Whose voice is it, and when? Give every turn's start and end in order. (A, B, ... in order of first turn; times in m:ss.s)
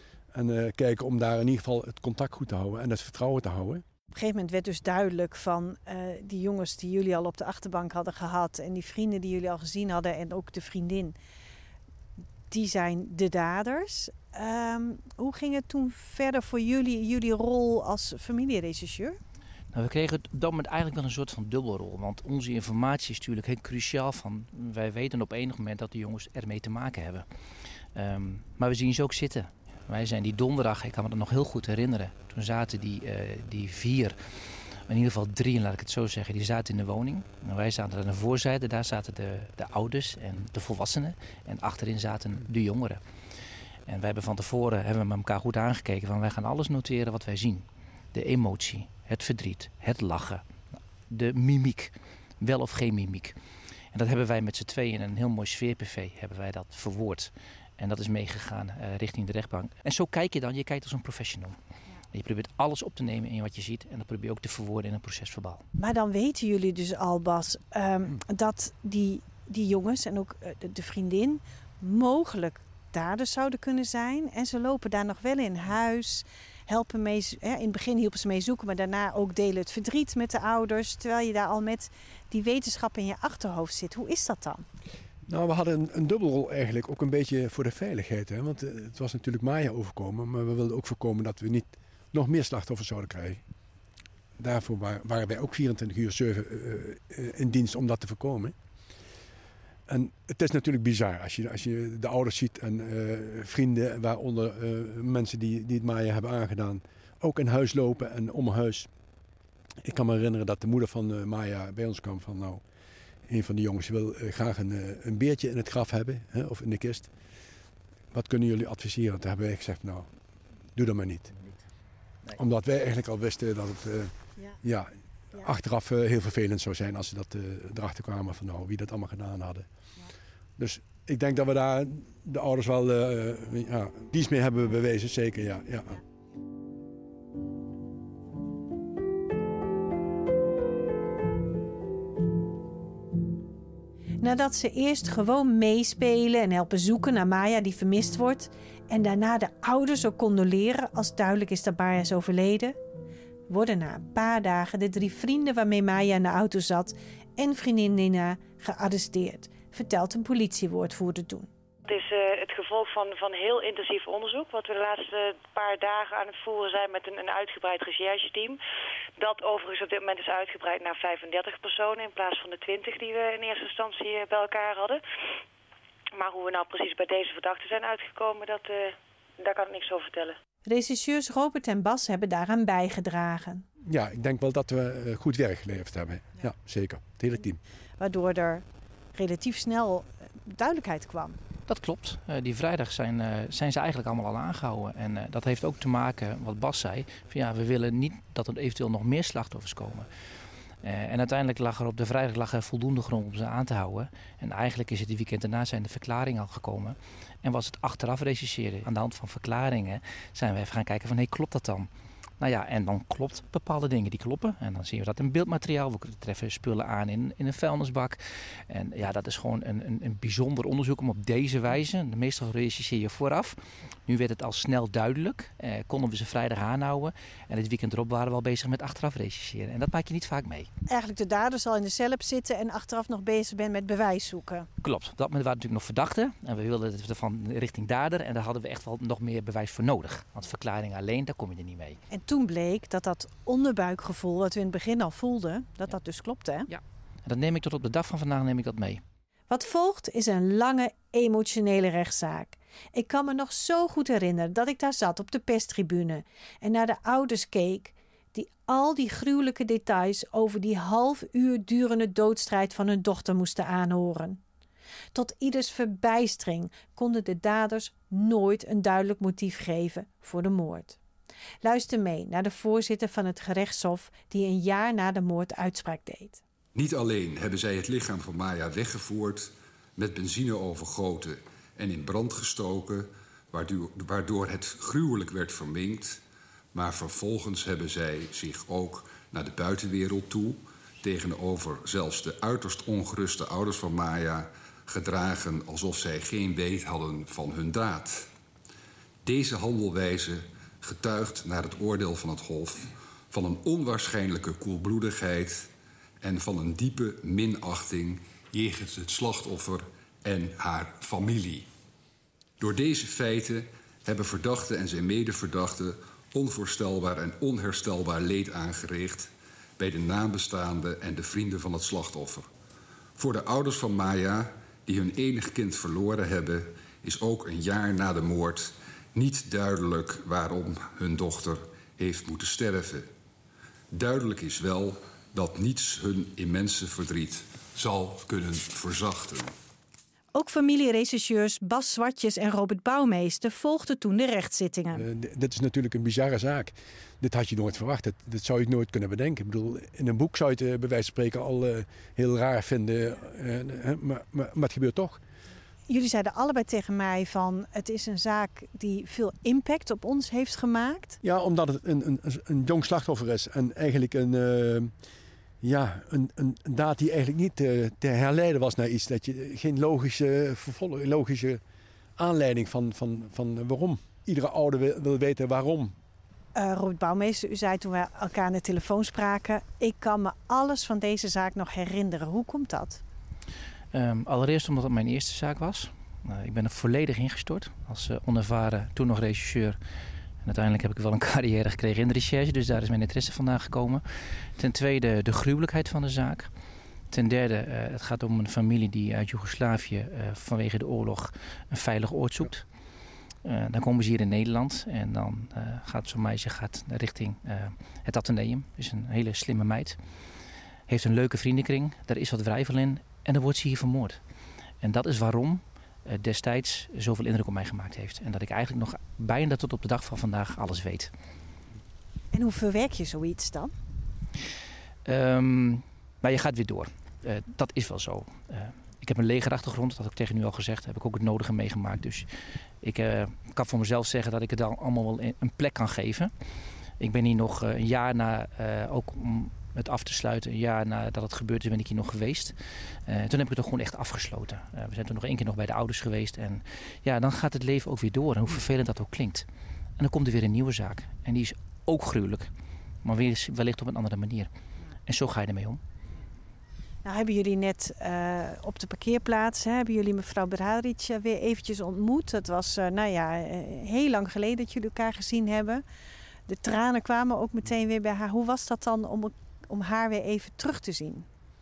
0:00.3-0:03.8 A
0:04.1-0:11.2 B
0:12.5-0:19.2 B
0:19.7-0:27.2 C
0:27.9-0:34.4 C
0:34.9-0:43.0 C
0:43.9-0:50.4 C
0:51.1-0:53.4 C
0:53.9-1:01.6 C
1:02.1-1:05.6 C
1:05.8-1:24.6 B
1:25.3-1:33.4 A
1:34.4-1:38.5 A
1:39.9-1:48.9 A
1:49.8-1:52.6 A
1:53.3-1:57.1 A
1:58.1-2:00.1 A
2:00.7-2:01.3 A
2:02.3-2:09.7 A
2:10.6-2:16.0 A
2:24.2-2:32.8 B
2:33.5-2:41.5 B
2:41.8-2:48.6 D
2:49.2-2:55.0 D
2:56.1-3:00.3 D
3:00.6-3:03.6 B
3:03.8-3:07.6 A
3:08.0-3:11.4 B
3:11.7-3:20.1 C
3:20.8-3:31.9 C
3:32.4-3:50.7 C
3:50.9-3:54.7 B
3:54.8-4:02.0 C
4:02.1-4:06.7 B
4:06.7-4:09.0 C
4:09.5-4:24.4 B
4:25.1-4:31.0 B
4:31.6-4:36.4 B
4:36.7-4:46.2 E
4:46.7-4:58.3 E
4:59.2-5:05.7 E
5:06.2-5:11.7 E
5:12.6-5:22.5 E
5:23.2-5:33.1 E
5:33.9-5:39.5 E
5:40.3-5:45.0 B
5:44.9-5:55.2 A
5:55.9-6:01.2 B
6:01.2-6:04.9 A
6:05.6-6:11.6 A
6:12.2-6:16.0 A
6:16.5-6:23.0 B
6:23.9-6:29.8 C
6:30.4-6:36.5 C
6:37.1-6:42.6 C
6:43.4-6:50.0 C
6:50.9-6:54.2 C
6:54.8-7:01.1 C
7:02.3-7:03.7 B
7:05.0-7:12.3 C
7:12.8-7:16.3 C
7:17.0-7:29.4 C
7:30.0-7:32.5 C
7:33.0-7:34.5 C
7:35.1-7:35.8 C
7:37.0-7:45.8 B
7:46.5-7:51.2 B